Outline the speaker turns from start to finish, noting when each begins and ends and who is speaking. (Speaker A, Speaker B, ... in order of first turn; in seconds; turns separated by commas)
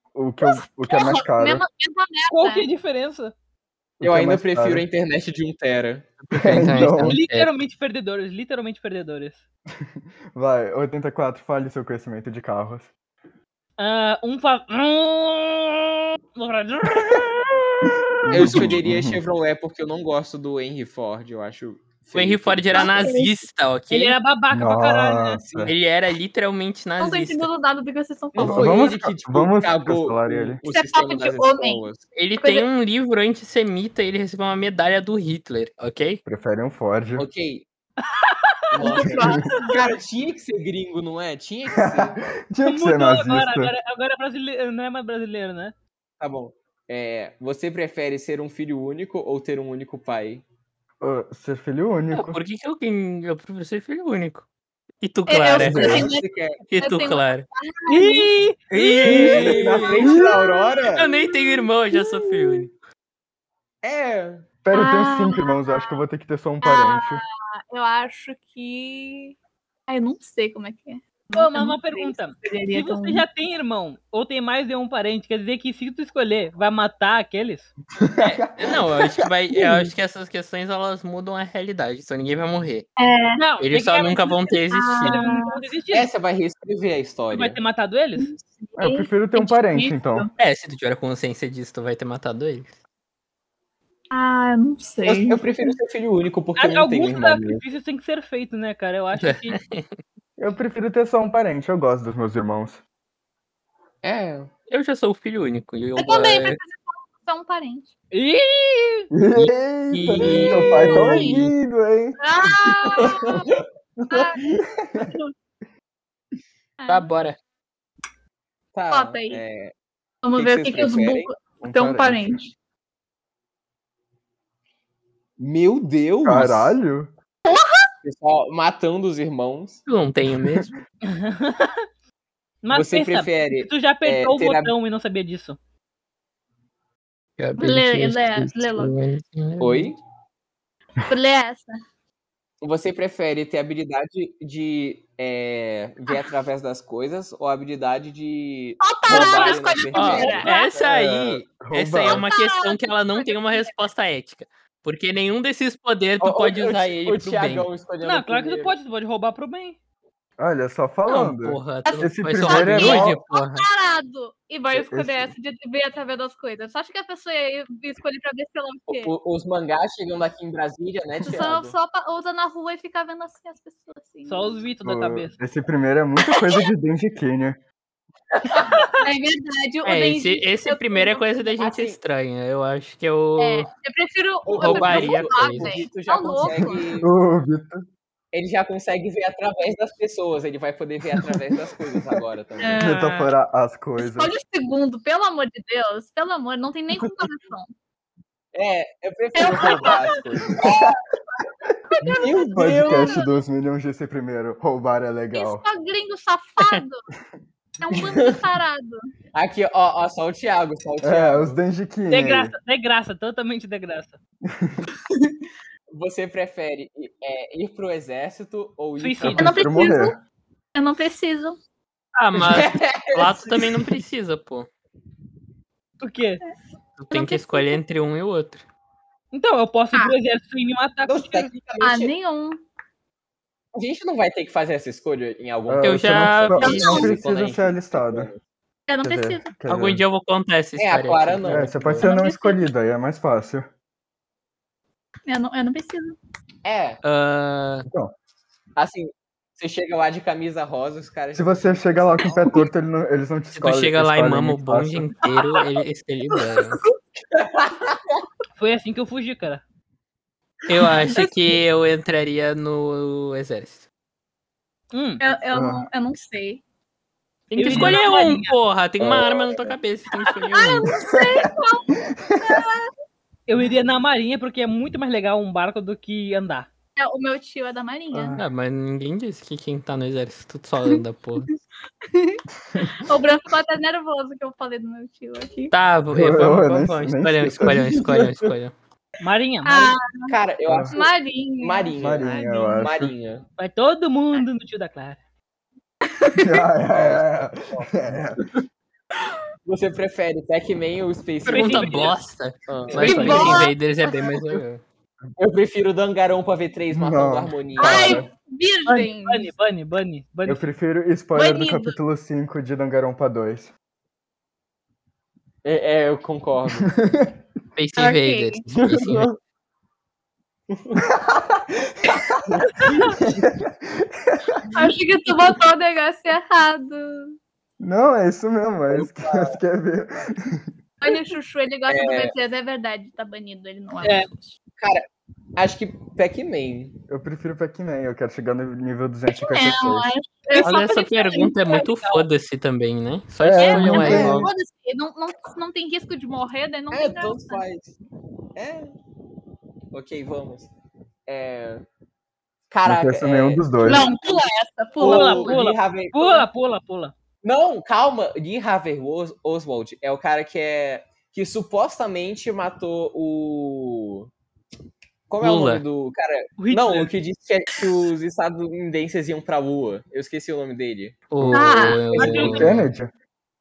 Speaker A: 0.1-1.6, Speaker B: 0.4-2.7, Speaker C: 2.3-3.3, Speaker A: 4.0-4.9, Speaker D: 4.0-6.1, Speaker E: 6.3-7.5, Speaker A: 6.4-7.2, Speaker C: 6.7-9.4, Speaker A: 9.8-12.9, Speaker C: 13.8-18.3, Speaker A: 18.3-19.2, Speaker D: 18.3-22.9, Speaker E: 22.1-24.2, Speaker B: 22.7-23.3, Speaker C: 23.9-25.4, Speaker A: 24.5-25.7, Speaker D: 25.4-25.8, Speaker E: 25.6-27.5, Speaker B: 27.0-28.8, Speaker D: 28.3-32.0, Speaker A: 28.4-30.6, Speaker B: 30.6-31.8, Speaker E: 32.1-36.2, Speaker B: 32.4-32.6, Speaker A: 36.2-37.3, Speaker D: 37.2-37.6, Speaker C: 38.1-38.5, Speaker D: 38.7-42.2, Speaker B: 38.8-39.8, Speaker A: 38.9-39.5, Speaker A: 41.8-43.7, Speaker C: 42.6-45.7, Speaker D: 46.2-50.5, Speaker A: 51.0-52.4, Speaker E: 52.1-54.5, Speaker E: 55.0-56.1, Speaker B: 55.3-58.4, Speaker A: 55.5-56.1, Speaker D: 56.0-56.6, Speaker E: 56.7-57.5, Speaker C: 57.9-59.2, Speaker E: 58.7-60.1, Speaker D: 59.0-61.1, Speaker A: 59.1-60.4, Speaker B: 60.0-62.6, Speaker E: 60.9-62.7, Speaker D: 63.8-64.5, Speaker A: 64.6-67.2, Speaker B: 64.7-66.0, Speaker B: 66.6-69.3, Speaker B: 69.9-73.2, Speaker C: 71.3-77.7, Speaker A: 78.0-79.9, Speaker E: 78.2-82.9, Speaker B: 83.0-83.4, Speaker C: 83.4-86.1, Speaker E: 83.6-85.2, Speaker B: 84.7-85.6, Speaker D: 85.9-87.6, Speaker C: 87.3-88.3, Speaker B: 88.2-90.3, Speaker A: 88.8-90.3, Speaker E: 90.4-92.7, Speaker B: 94.1-95.7, Speaker D: 95.0-97.6, Speaker C: 96.6-99.6, Speaker E: 99.2-99.9, Speaker A: 100.4-102.8, Speaker D: 104.0-104.5, Speaker E: 104.7-106.6, Speaker B: 106.0-107.9, Speaker C: 108.1-109.1, Speaker A: 109.1-112.2, Speaker E: 109.3-111.5, Speaker B: 110.2-111.3, Speaker B: 112.2-113.5, Speaker D: 113.0-113.6, Speaker B: 114.1-115.3, Speaker A: 114.2-115.1, Speaker B: 116.8-117.1, Speaker E: 116.9-117.4, Speaker D: 118.7-119.7, Speaker B: 118.9-119.4, Speaker B: 120.2-122.5, Speaker D: 120.3-121.3, Speaker A: 121.6-122.4, Speaker D: 125.4-126.8, Speaker A: 126.2-127.1, Speaker B: 127.5-127.8, Speaker D: 128.0-129.8, Speaker E: 129.9-130.8, Speaker C: 131.1-131.8, Speaker C: 132.6-135.6, Speaker D: 132.7-134.8, Speaker E: 137.4-139.9, Speaker B: 137.6-138.9, Speaker D: 139.6-140.0, Speaker B: 141.1-141.7, Speaker D: 142.6-150.8, Speaker B: 148.8-150.7, Speaker C: 149.1-149.8, Speaker E: 149.9-157.7, Speaker A: 150.7-152.3, Speaker B: 152.1-153.8, Speaker D: 156.2-158.8, Speaker C: 158.0-159.8, Speaker A: 160.4-163.2, Speaker E: 161.1-163.7, Speaker B: 161.8-169.1, Speaker A: 164.7-165.3, Speaker D: 168.9-171.8, Speaker B: 171.3-174.6, Speaker C: 174.3-175.4, Speaker A: 174.8-177.6, Speaker B: 178.5-181.2, Speaker C: 178.6-179.1, Speaker E: 179.8-183.7, Speaker D: 181.6-182.0, Speaker B: 183.4-186.8, Speaker D: 184.4-187.1, Speaker E: 184.6-185.9, Speaker A: 187.0-187.9, Speaker D: 188.3-192.8, Speaker B: 192.6-193.3, Speaker A: 192.8-194.3, Speaker B: 194.0-197.7, Speaker D: 198.5-201.0, Speaker B: 199.4-200.8, Speaker A: 200.6-200.8, Speaker A: 201.7-205.6, Speaker B: 201.9-203.3, Speaker D: 202.2-203.2, Speaker B: 205.3-207.0, Speaker B: 207.8-209.0, Speaker D: 207.9-208.4, Speaker D: 209.3-211.6, Speaker A: 211.0-212.5, Speaker C: 212.1-214.2, Speaker A: 214.5-214.9, Speaker D: 215.9-219.6, Speaker C: 219.0-219.4, Speaker A: 219.2-220.2, Speaker B: 219.3-220.2, Speaker B: 220.8-221.6, Speaker E: 222.1-224.7, Speaker D: 222.3-223.9, Speaker C: 226.0-226.4, Speaker E: 227.0-228.6, Speaker B: 227.1-227.8, Speaker C: 229.3-231.5, Speaker D: 231.1-232.1, Speaker B: 231.8-232.6, Speaker D: 233.8-238.4, Speaker A: 235.7-238.3, Speaker E: 235.8-237.1, Speaker B: 236.6-237.1, Speaker B: 238.9-239.5, Speaker A: 239.0-240.0, Speaker E: 239.7-241.8, Speaker D: 240.8-242.1, Speaker A: 241.4-243.7, Speaker B: 242.0-242.7, Speaker B: 245.3-246.2, Speaker D: 246.6-247.0, Speaker E: 247.0-247.9, Speaker D: 248.8-252.6, Speaker A: 251.3-255.1, Speaker E: 253.5-256.8, Speaker D: 257.3-258.2, Speaker C: 258.6-259.6, Speaker E: 260.7-263.9, Speaker C: 264.9-265.2, Speaker B: 265.2-266.6, Speaker A: 265.5-265.9, Speaker E: 267.5-270.9, Speaker C: 267.6-268.6, Speaker D: 269.0-269.5, Speaker B: 270.5-272.9, Speaker A: 271.2-271.4, Speaker A: 272.1-272.6, Speaker C: 273.5-276.7, Speaker B: 276.9-278.4, Speaker A: 278.1-278.4, Speaker E: 278.4-281.5, Speaker B: 282.1-285.7, Speaker E: 285.7-288.7, Speaker A: 286.1-288.1, Speaker C: 289.2-289.9, Speaker B: 289.6-290.3, Speaker D: 290.3-293.4, Speaker A: 290.7-290.9, Speaker B: 290.9-292.8, Speaker A: 292.0-293.1, Speaker C: 293.6-295.2, Speaker B: 296.2-296.7, Speaker A: 296.4-298.4, Speaker D: 296.9-298.4, Speaker D: 299.7-302.1, Speaker E: 301.4-304.8, Speaker C: 301.5-302.2, Speaker D: 302.7-303.7, Speaker C: 303.0-303.5, Speaker B: 303.0-304.3, Speaker D: 305.4-308.3, Speaker A: 306.9-308.3, Speaker B: 307.8-309.5, Speaker C: 308.9-310.6, Speaker A: 310.4-313.7, Speaker B: 311.4-311.9, Speaker D: 315.6-316.9, Speaker A: 316.8-317.3, Speaker E: 317.8-319.3, Speaker B: 318.0-318.6, Speaker A: 318.9-319.2, Speaker D: 320.7-321.0, Speaker A: 321.1-321.6, Speaker D: 322.6-323.2, Speaker C: 322.8-323.2, Speaker A: 323.4-324.6, Speaker B: 324.7-327.4, Speaker A: 327.8-330.7, Speaker D: 328.9-329.6, Speaker B: 331.0-334.5, Speaker D: 331.9-332.4, Speaker C: 334.0-334.3, Speaker D: 334.8-335.1, Speaker D: 335.6-337.0, Speaker A: 337.1-340.1, Speaker B: 339.3-341.5, Speaker C: 340.5-342.3, Speaker E: 340.6-344.4, Speaker A: 343.4-344.5, Speaker B: 343.6-347.6, Speaker D: 343.9-344.5, Speaker D: 346.9-347.9, Speaker D: 348.6-348.9, Speaker D: 349.9-350.7, Speaker D: 351.3-351.8, Speaker D: 352.7-354.3, Speaker A: 352.9-354.1, Speaker B: 353.8-355.5, Speaker D: 355.0-356.5, Speaker C: 355.0-357.1, Speaker D: 357.4-364.3, Speaker D: 365.3-371.3, Speaker E: 365.4-365.8, Speaker C: 366.6-367.1, Speaker E: 371.3-372.9, Speaker A: 371.4-373.1, Speaker B: 371.5-372.1, Speaker C: 372.1-372.7